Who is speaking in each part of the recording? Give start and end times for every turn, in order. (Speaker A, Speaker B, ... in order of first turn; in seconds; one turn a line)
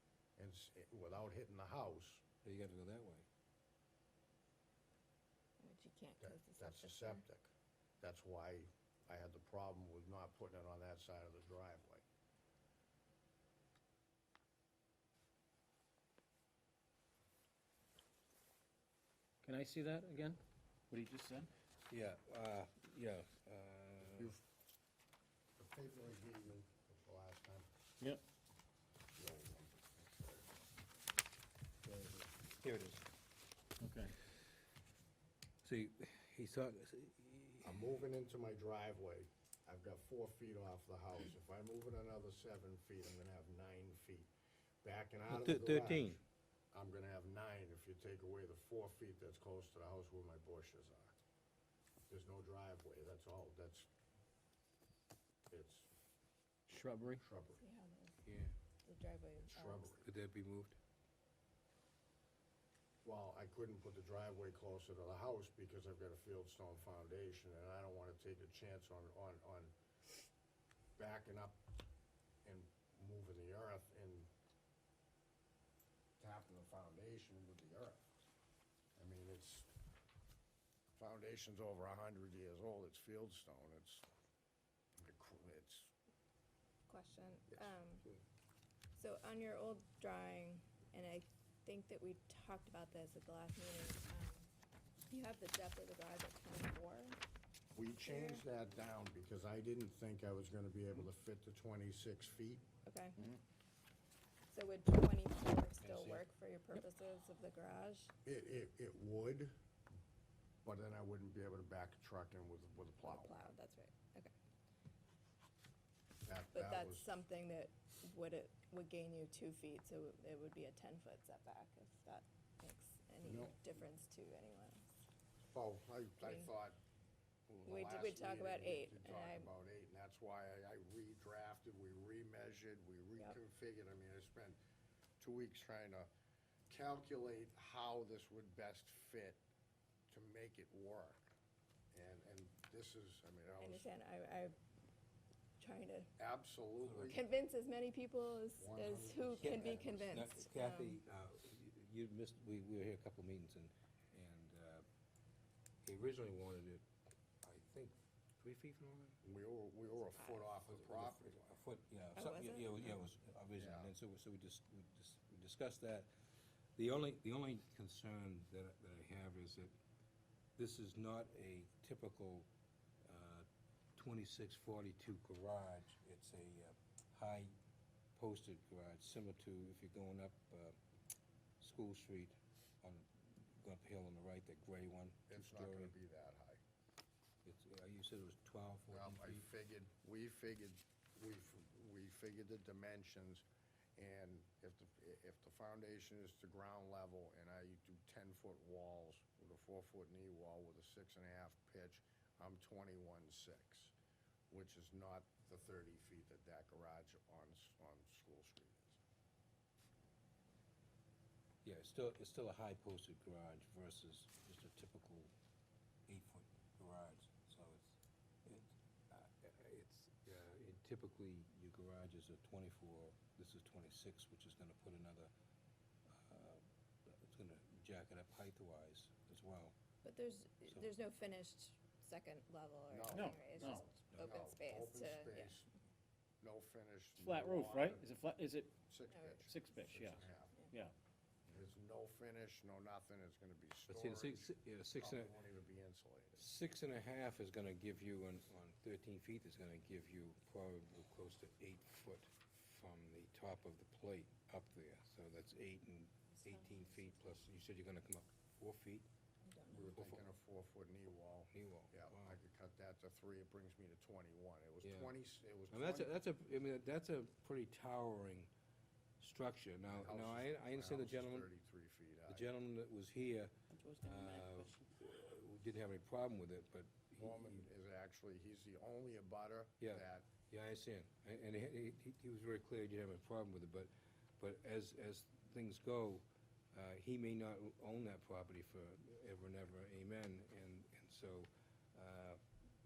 Speaker A: 0.4-2.2
Speaker B: 2.4-3.2
Speaker C: 5.6-7.2
Speaker A: 6.2-12.0
Speaker D: 19.4-21.5
Speaker B: 21.9-24.3
Speaker A: 24.0-24.4
Speaker A: 25.6-27.7
Speaker A: 29.1-30.5
Speaker A: 31.8-32.3
Speaker B: 32.6-33.0
Speaker D: 33.8-34.2
Speaker B: 35.6-37.9
Speaker A: 37.6-44.3
Speaker A: 44.8-46.2
Speaker B: 45.3-46.2
Speaker A: 46.7-51.2
Speaker A: 52.1-53.9
Speaker A: 55.5-55.9
Speaker D: 56.7-57.2
Speaker A: 57.2-57.6
Speaker C: 57.5-58.2
Speaker B: 58.2-58.5
Speaker C: 58.8-59.9
Speaker A: 59.4-60.1
Speaker B: 60.0-60.8
Speaker A: 63.0-69.7
Speaker A: 71.0-71.6
Speaker A: 72.4-74.3
Speaker A: 76.2-78.1
Speaker A: 79.0-79.7
Speaker A: 81.0-84.0
Speaker A: 85.0-85.9
Speaker C: 86.9-88.0
Speaker B: 87.5-88.2
Speaker C: 88.9-94.5
Speaker C: 95.1-97.2
Speaker A: 97.7-102.6
Speaker C: 97.9-98.5
Speaker C: 102.8-103.2
Speaker C: 104.5-108.1
Speaker B: 105.8-106.2
Speaker A: 108.2-109.5
Speaker A: 110.6-113.5
Speaker C: 113.0-114.3
Speaker A: 116.2-117.1
Speaker C: 116.5-124.8
Speaker A: 123.2-123.6
Speaker A: 125.4-126.8
Speaker C: 126.2-126.5
Speaker A: 127.5-134.6
Speaker C: 127.6-129.5
Speaker A: 135.2-136.1
Speaker A: 136.7-139.4
Speaker A: 140.1-141.3
Speaker A: 141.9-143.9
Speaker C: 143.6-144.6
Speaker C: 145.6-146.1
Speaker A: 146.2-147.2
Speaker B: 146.8-147.2
Speaker C: 147.1-151.0
Speaker A: 148.6-150.1
Speaker B: 149.4-154.8
Speaker B: 155.8-156.8
Speaker B: 157.4-159.2
Speaker A: 159.2-161.6
Speaker C: 160.2-160.4
Speaker B: 160.6-166.1
Speaker C: 162.1-162.8
Speaker A: 163.6-163.9
Speaker B: 166.8-169.7
Speaker B: 170.6-172.5
Speaker B: 173.1-177.5
Speaker B: 178.1-180.8
Speaker B: 181.6-185.9
Speaker A: 185.3-186.6
Speaker B: 187.4-189.5
Speaker A: 188.9-193.4
Speaker A: 194.0-203.9
Speaker A: 204.5-209.0
Speaker B: 211.6-215.3
Speaker B: 216.1-225.3
Speaker B: 226.1-229.7
Speaker C: 230.0-235.6
Speaker A: 232.9-235.7
Speaker D: 233.1-233.8
Speaker A: 236.4-238.1
Speaker D: 237.2-238.8
Speaker A: 238.9-240.5
Speaker C: 239.1-239.4
Speaker D: 239.4-240.9
Speaker A: 241.5-246.4
Speaker B: 243.9-245.4
Speaker B: 246.4-259.1
Speaker C: 259.4-259.9
Speaker A: 259.7-266.1
Speaker B: 259.7-260.2
Speaker B: 261.5-262.4
Speaker B: 264.8-265.1
Speaker B: 265.7-268.5
Speaker B: 269.2-271.5
Speaker A: 269.9-272.5
Speaker B: 272.3-277.7
Speaker D: 273.7-274.9
Speaker A: 277.2-280.3
Speaker B: 279.8-292.4